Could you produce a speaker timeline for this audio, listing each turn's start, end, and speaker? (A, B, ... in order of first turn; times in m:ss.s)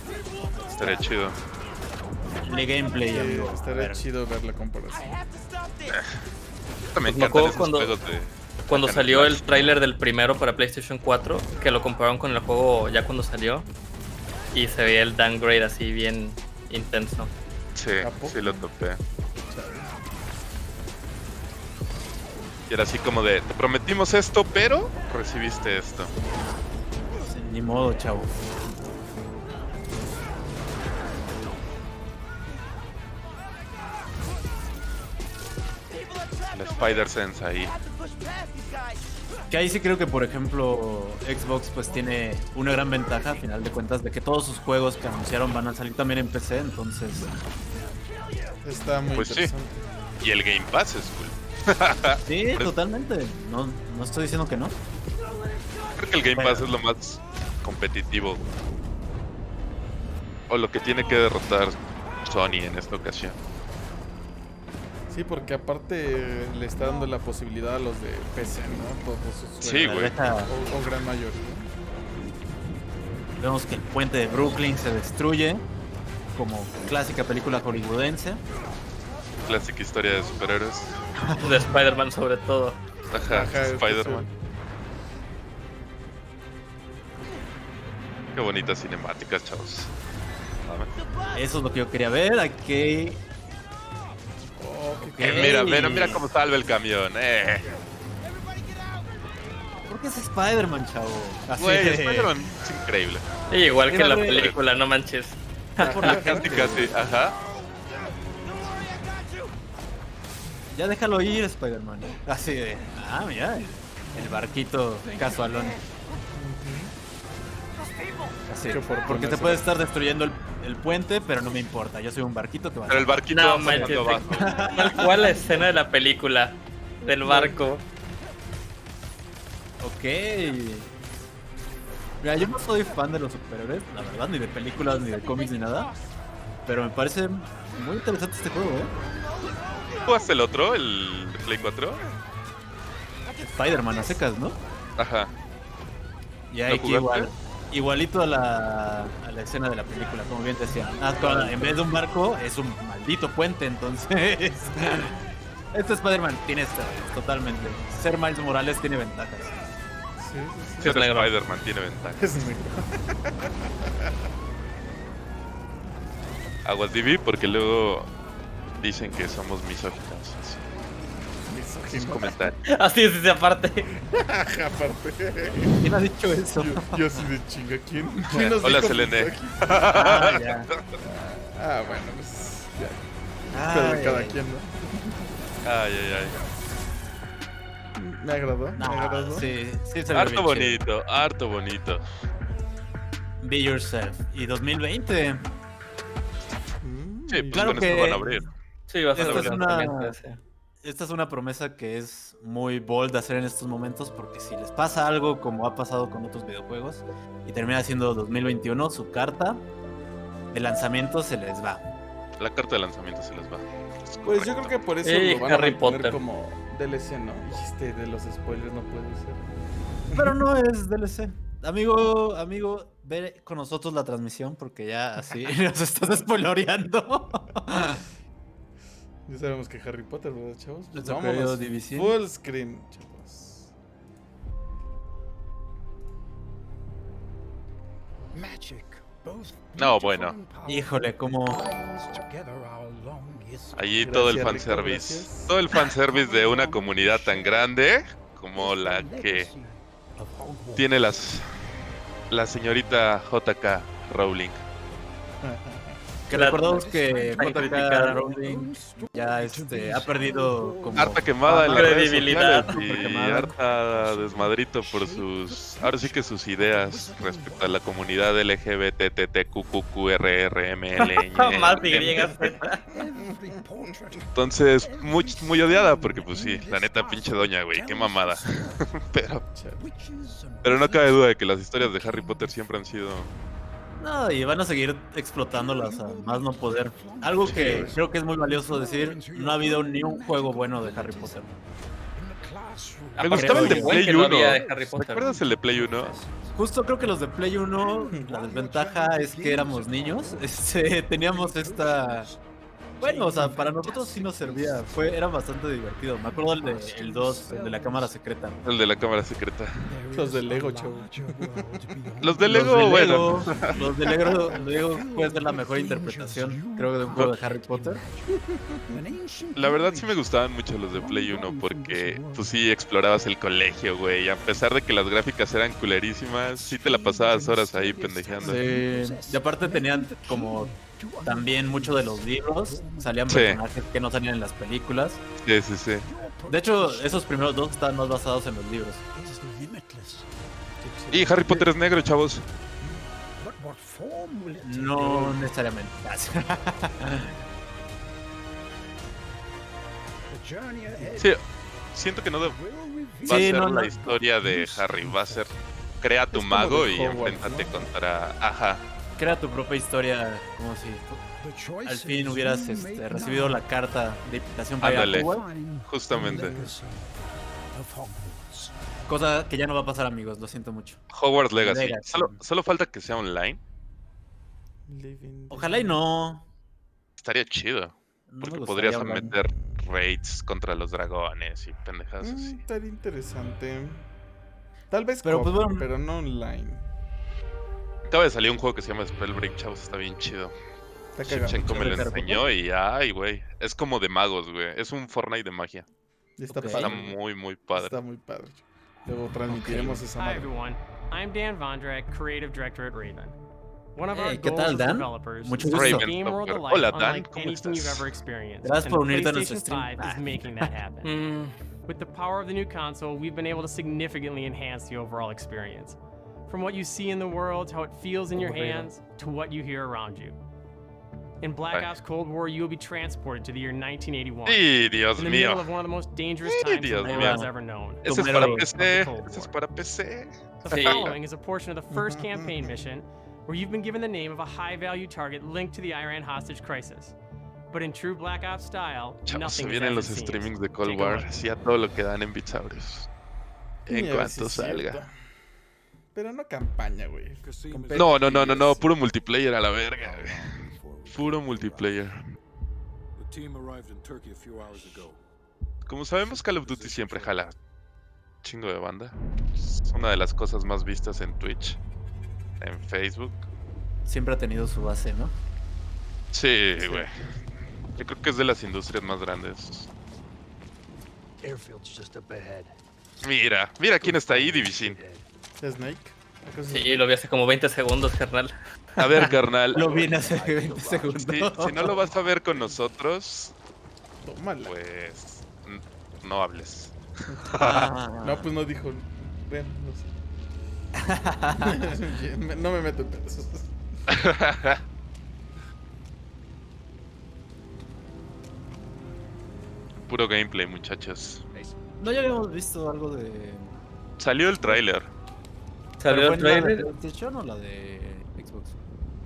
0:00.8-0:01.4 A
0:02.4-0:04.0 B
0:03.0-0:05.1 C
0:05.0-0:05.9 D
0:05.9-0:06.2 A
0:06.9-0:09.7 A
0:07.0-0:07.9 E
0:08.7-0:13.6 E
0:14.5-0:17.3 E
0:17.7-0:19.0 A
0:18.0-0:18.7 C
0:19.5-0:19.9 C
0:22.7-0:26.1 A
0:27.4-0:28.3 B
0:36.1-0:37.0 D
0:36.4-0:37.7 A
0:37.8-0:38.9 D
0:39.5-0:47.3 B
0:48.6-0:49.8 C
0:49.1-0:49.5 A
0:50.2-0:52.7 A
0:52.2-0:54.7 B
0:56.0-0:58.4 A
0:56.3-0:56.7 B
1:00.5-1:03.4 A
1:05.1-1:11.7 C
1:09.6-1:10.1 A
1:09.8-1:10.5 B
1:13.4-1:15.6 B
1:16.3-1:18.4 B
1:19.4-1:21.0 A
1:21.2-1:21.7 B
1:21.4-1:22.8 E
1:23.1-1:24.3 A
1:23.2-1:24.3 C
1:28.3-1:29.9 A
1:30.6-1:30.9 A
1:31.3-1:33.2 B
1:34.6-1:36.0 C
1:35.0-1:36.2 B
1:35.2-1:37.7 A
1:39.8-1:42.3 B
1:41.6-1:43.3 A
1:43.5-1:46.2 E
1:43.9-1:44.4 B
1:43.9-1:44.6 A
1:45.8-1:46.9 C
1:45.8-1:46.9 B
1:46.0-1:47.4 A
1:48.4-1:49.5 D
1:50.7-1:55.8 B
1:54.4-1:55.8 D
1:56.3-1:56.9 C
1:57.9-1:58.4 D
1:58.5-2:05.4 B
1:58.7-1:59.7 C
2:02.9-2:04.7 A
2:03.3-2:07.8 E
2:04.3-2:04.8 D
2:07.2-2:07.6 C
2:09.8-2:10.9 B
2:12.2-2:15.9 B
2:15.0-2:15.6 D
2:16.6-2:18.9 B
2:19.6-2:20.3 D
2:20.0-2:22.1 A
2:23.4-2:24.2 D
2:23.4-2:24.6 B
2:25.0-2:25.3 A
2:26.5-2:35.1 B
2:26.7-2:27.3 A
2:31.2-2:31.8 C
2:34.8-2:35.1 C
2:35.7-2:39.5 B
2:40.2-2:40.9 C
2:40.8-2:42.2 A
2:40.8-2:41.3 E
2:42.2-2:43.5 C
2:46.6-2:48.1 A
2:48.8-2:50.6 A
2:51.4-2:52.4 C
2:51.9-2:52.6 A
2:52.6-2:53.9 E
2:54.0-2:55.9 C
2:55.8-2:57.2 B
2:56.6-2:59.8 C
2:58.3-3:00.5 A
2:59.9-3:00.7 B
3:01.0-3:05.2 C
3:03.5-3:04.4 B
3:05.6-3:06.3 A
3:08.0-3:09.5 C
3:08.8-3:10.8 B
3:10.1-3:12.0 A
3:13.4-3:15.5 B
3:16.8-3:18.5 C
3:17.3-3:18.5 A
3:17.5-3:18.3 B
3:18.9-3:20.4 E
3:19.1-3:20.1 B
3:19.2-3:19.6 A
3:20.8-3:29.6 B
3:30.5-3:31.8 B
3:32.4-3:34.8 A
3:34.2-3:39.5 C
3:35.0-3:36.2 E
3:40.1-3:48.0 B
3:47.7-3:48.0 C
3:49.3-3:53.7 C
3:50.9-3:52.1 B
3:58.3-4:04.0 D
3:59.8-4:00.3 A
4:00.6-4:01.6 B
4:03.7-4:09.5 A
4:04.0-4:05.6 C
4:05.8-4:07.7 D
4:08.5-4:11.1 D
4:10.7-4:11.5 A
4:12.3-4:14.6 A
4:15.4-4:16.0 C
4:16.3-4:23.5 B
4:16.3-4:18.2 E
4:16.4-4:21.4 D
4:20.9-4:32.4 A
4:21.6-4:22.7 E
4:23.1-4:28.3 D
4:31.0-4:32.8 E
4:31.8-4:32.2 D
4:31.9-4:32.6 C
4:32.9-4:38.9 D
4:34.3-4:39.4 A
4:39.5-4:39.8 C
4:39.8-4:42.7 D
4:40.6-4:43.3 A
4:44.0-4:51.5 B
4:45.4-5:02.4 D
4:47.5-4:47.8 A
4:47.5-4:48.0 C
4:53.2-4:55.4 E
4:53.2-4:56.2 A
4:53.3-4:54.1 B
4:56.5-5:02.3 B
4:58.1-4:58.5 C
5:03.0-5:08.6 B
5:03.0-5:05.3 D
5:03.1-5:03.5 C
5:06.0-5:08.2 D
5:08.6-5:09.8 A
5:09.8-5:20.2 D
5:10.1-5:11.8 C
5:12.2-5:13.8 A
5:12.4-5:18.0 B
5:19.6-5:28.7 A
5:20.9-5:22.6 D
5:26.5-5:33.6 D
5:28.4-5:30.7 B
5:31.2-5:35.2 B
5:33.2-5:33.6 A
5:35.4-5:36.1 A
5:36.0-5:37.9 D
5:36.5-5:39.0 B
5:39.1-5:40.3 D
5:40.8-5:41.7 C
5:41.1-5:42.4 A
5:43.4-5:45.4 D
5:44.6-5:47.3 B
5:50.3-5:51.4 D
5:50.9-5:51.2 C
5:51.9-5:52.6 A
5:52.4-5:55.7 D
5:53.2-5:58.8 A
5:53.2-5:53.9 B
5:56.3-5:57.9 C
5:59.2-6:01.2 B
6:01.4-6:03.7 D
6:01.8-6:05.4 B
6:04.8-6:07.1 D
6:04.8-6:05.3 A
6:05.8-6:06.5 A
6:06.1-6:06.8 C
6:07.7-6:08.7 D
6:09.1-6:11.0 B
6:11.1-6:13.6 A
6:11.6-6:12.4 B
6:14.9-6:16.0 C
6:15.5-6:16.5 B
6:17.2-6:22.6 A
6:18.3-6:19.4 B
6:19.1-6:19.8 C
6:22.2-6:24.0 C
6:24.9-6:26.9 C
6:25.2-6:25.9 B
6:28.1-6:30.5 A
6:31.1-6:32.2 C
6:31.2-6:35.9 A
6:31.7-6:32.5 B
6:36.4-6:37.2 C
6:36.5-6:36.9 B
6:36.7-6:38.0 A
6:37.7-6:40.5 C
6:39.5-6:40.0 B
6:40.2-6:43.3 F
6:44.0-6:51.1 F
6:44.1-6:46.1 B
6:45.6-6:48.1 A
6:48.6-6:50.7 B
6:51.0-6:51.5 E
6:51.8-7:00.3 F
6:58.3-6:58.9 C
7:01.4-7:09.5 F
7:04.4-7:05.7 A
7:06.4-7:07.4 A
7:07.0-7:07.5 B
7:08.0-7:11.2 A
7:08.0-7:08.7 B
7:10.6-7:17.1 F
7:10.7-7:11.1 E
7:11.9-7:12.8 C
7:17.7-7:21.3 F
7:19.2-7:23.1 A
7:23.8-7:25.0 A
7:23.9-7:25.2 C
7:26.1-7:28.8 C
7:27.6-7:28.8 D
7:27.9-7:32.2 A
7:30.2-7:30.7 D
7:31.2-7:31.8 D
7:34.6-7:35.1 D
7:35.8-7:37.5 A
7:36.3-7:37.4 D
7:38.4-7:41.8 A
7:42.6-7:43.4 A
7:44.0-7:45.3 B
7:46.3-7:47.2 A
7:46.8-7:47.3 C
7:48.0-7:49.9 A
7:51.4-7:52.7 D
7:53.2-7:55.0 A
7:54.0-7:55.2 D
7:55.6-7:57.0 C
7:56.7-7:59.3 E
7:59.0-8:00.1 A
7:59.7-8:02.0 B
7:59.8-8:02.4 D
8:01.1-8:03.5 A
8:04.2-8:04.7 C
8:04.6-8:07.8 A
8:07.3-8:10.1 C
8:07.5-8:08.5 B
8:11.0-8:11.8 B
8:11.6-8:13.7 C
8:14.1-8:14.8 A
8:20.1-8:21.4 A
8:22.0-8:23.7 B
8:24.2-8:25.1 A
8:24.6-8:24.8 B
8:26.0-8:26.9 E
8:26.0-8:28.8 B